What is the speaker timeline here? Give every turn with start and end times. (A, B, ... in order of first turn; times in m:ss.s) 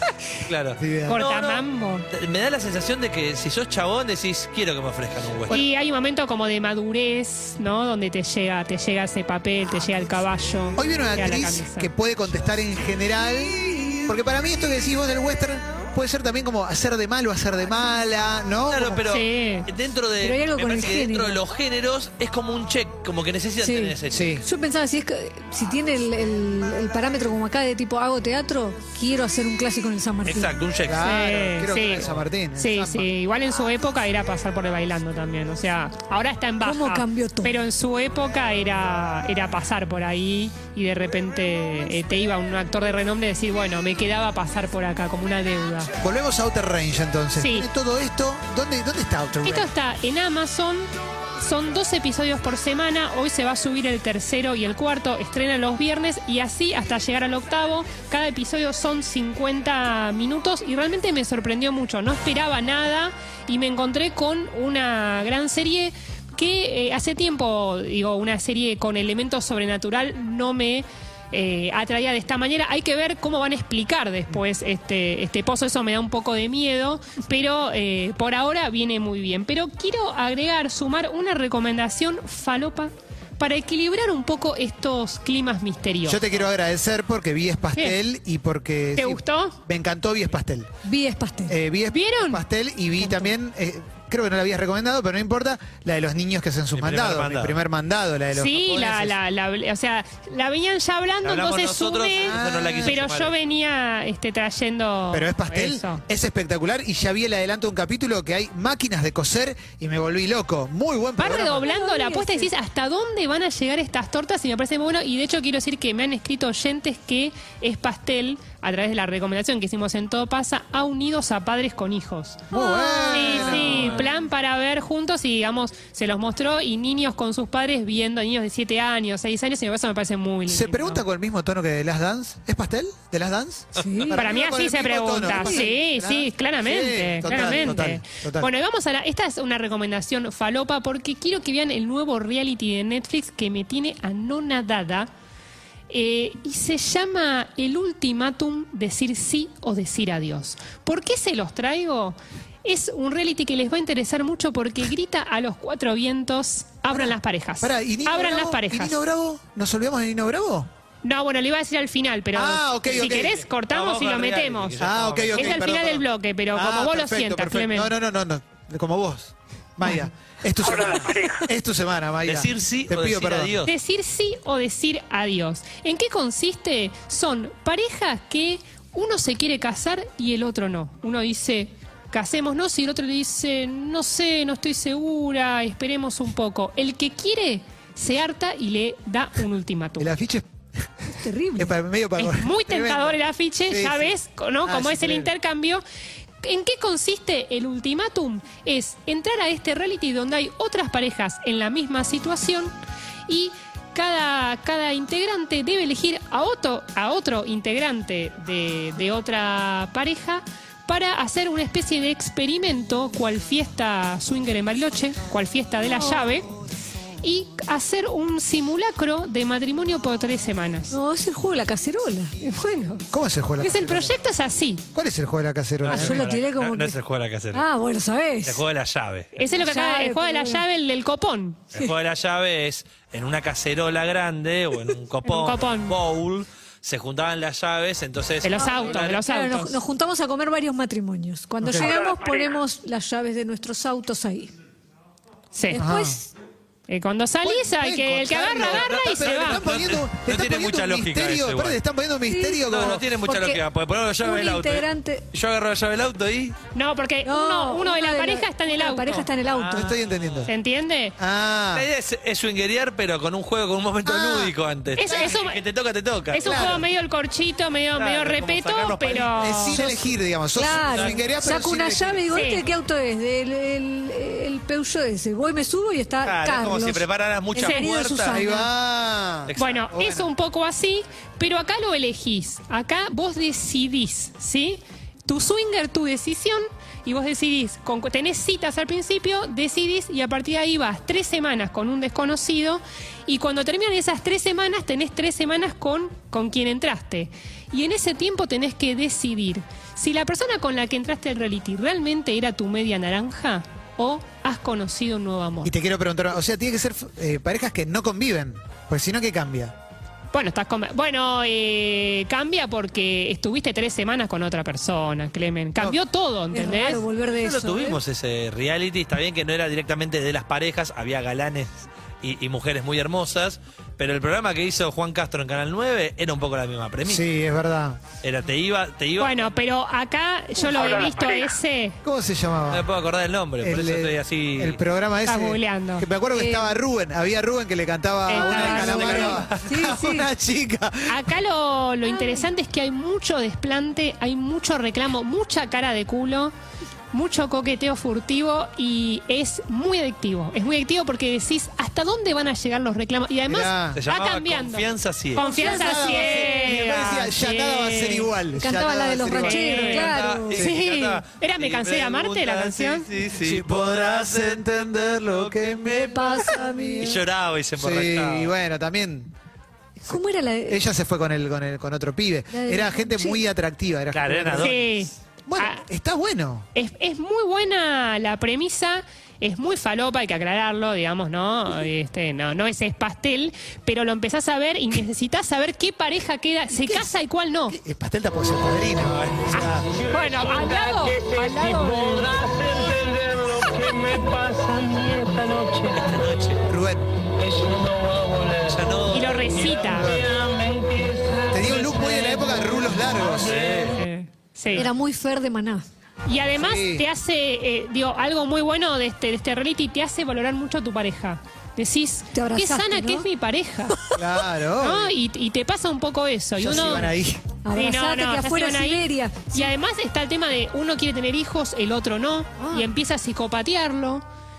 0:00.4-0:05.6 A
0:00.8-0:01.2 B
0:01.1-0:02.1 C
0:05.5-0:11.9 C
0:10.8-0:19.0 B
0:18.7-0:24.3 A
0:19.1-0:19.7 C
0:20.2-0:21.4 D
0:23.6-0:30.5 D
0:24.1-0:24.4 B
0:30.2-0:31.0 A
0:30.8-0:33.1 B
0:31.0-0:45.9 C
0:36.6-0:37.5 D
0:46.0-0:49.7 B
0:47.4-0:47.7 C
0:49.4-1:26.2 C
1:26.0-1:30.7 B
1:29.0-1:29.6 C
1:30.8-1:31.6 D
1:31.5-1:39.2 B
1:31.9-1:32.4 C
1:33.0-1:33.3 D
1:36.7-1:37.6 A
1:38.3-1:46.0 C
1:41.2-1:43.3 A
1:42.2-1:43.0 B
1:45.1-1:51.7 B
1:51.2-2:11.0 C
1:51.6-1:52.5 D
2:02.5-2:04.1 B
2:02.6-2:03.1 D
2:03.4-2:04.0 A
2:10.5-2:18.5 B
2:13.8-2:14.2 D
2:14.1-2:25.1 C
2:15.3-2:15.7 D
2:25.9-2:39.0 C
2:36.9-2:40.7 B
2:41.0-2:44.8 C
2:42.3-2:43.4 B
2:42.9-2:45.6 A
2:44.8-2:53.6 B
2:45.3-2:47.9 C
2:52.2-2:53.7 A
2:53.6-3:10.1 C
3:10.0-3:10.5 B
3:11.2-3:11.7 D
3:11.6-3:15.3 B
3:12.2-3:15.8 C
3:16.4-3:22.7 C
3:23.3-3:36.5 C
3:35.9-3:36.2 D
3:37.2-3:41.0 C
3:40.9-3:42.4 D
3:42.4-3:44.8 C
3:43.1-3:44.1 B
3:44.9-3:46.2 B
3:45.8-3:47.7 A
3:45.9-3:47.0 D
3:47.5-3:48.6 D
3:48.4-3:49.3 A
3:49.4-3:51.7 C
3:49.5-3:50.6 D
3:51.7-3:59.2 A
3:55.2-3:55.9 C
3:58.4-3:59.8 C
3:58.6-4:04.5 D
4:01.6-4:01.9 B
4:05.5-4:05.8 C
4:05.7-4:06.3 D
4:05.7-4:06.2 B
4:06.9-4:09.6 C
4:07.4-4:13.1 B
4:08.6-4:11.8 A
4:12.3-4:12.7 D
4:12.6-4:16.6 A
4:13.2-4:13.6 D
4:14.2-4:15.2 D
4:16.7-4:19.3 C
4:17.2-4:19.9 D
4:19.4-4:20.5 A
4:19.7-4:20.5 B
4:20.5-4:21.2 C
4:21.2-4:21.9 B
4:21.7-4:26.8 A
4:24.0-4:25.3 B
4:25.0-4:25.6 C
4:26.3-4:29.8 C
4:26.4-4:26.8 B
4:28.0-4:29.8 A
4:29.4-4:32.3 B
4:30.5-4:38.7 D
4:30.6-4:31.2 A
4:32.3-4:32.6 C
4:36.2-4:38.4 A
4:38.3-4:40.3 B
4:39.5-4:39.9 A
4:39.6-5:05.7 C
5:05.6-5:09.7 B
5:10.3-5:17.0 C
5:16.5-5:18.0 D
5:17.3-5:27.2 A
5:27.0-5:28.0 B
5:28.2-5:29.4 A
5:29.2-5:32.0 C
5:32.0-5:32.9 B
5:32.7-5:34.8 A
5:33.6-5:41.3 B
5:35.2-5:36.1 C
5:36.3-5:36.8 D
5:38.3-5:39.4 C
5:38.3-5:40.3 D
5:38.8-5:39.7 A
5:41.1-5:46.5 C
5:42.0-5:42.5 D
5:47.1-5:58.3 C
5:53.5-5:54.0 B
5:53.9-5:55.5 A
5:55.4-5:56.7 D
5:55.4-5:59.9 B
5:58.6-6:00.6 D
5:59.4-6:03.1 C
5:59.6-6:08.5 A
6:03.4-6:07.2 B
6:05.9-6:07.2 D
6:07.8-6:09.3 B
6:10.0-6:10.8 D
6:10.1-6:14.7 B
6:12.5-6:13.4 D
6:14.1-6:14.9 A
6:14.6-6:15.8 C
6:15.4-6:16.7 B
6:16.7-6:27.8 C
6:26.7-6:27.2 B
6:27.7-6:29.9 B
6:29.1-6:29.7 A
6:29.5-6:32.9 C
6:33.0-6:35.8 E
6:35.8-6:36.6 A
6:36.7-6:37.1 B
6:37.7-6:38.2 E
6:38.6-6:39.8 A
6:39.1-6:40.2 C
6:39.8-6:40.4 B
6:40.5-6:42.5 E
6:41.5-6:43.6 B
6:43.3-6:44.0 A
6:43.9-6:44.9 C
6:44.7-6:45.8 D
6:46.2-6:54.1 C
6:46.6-6:47.1 B
6:52.3-6:53.2 D
6:54.1-6:55.1 B
6:54.8-6:57.1 C
6:56.6-6:57.5 B
6:57.6-6:59.7 D
6:57.7-7:04.2 C
7:02.6-7:02.9 D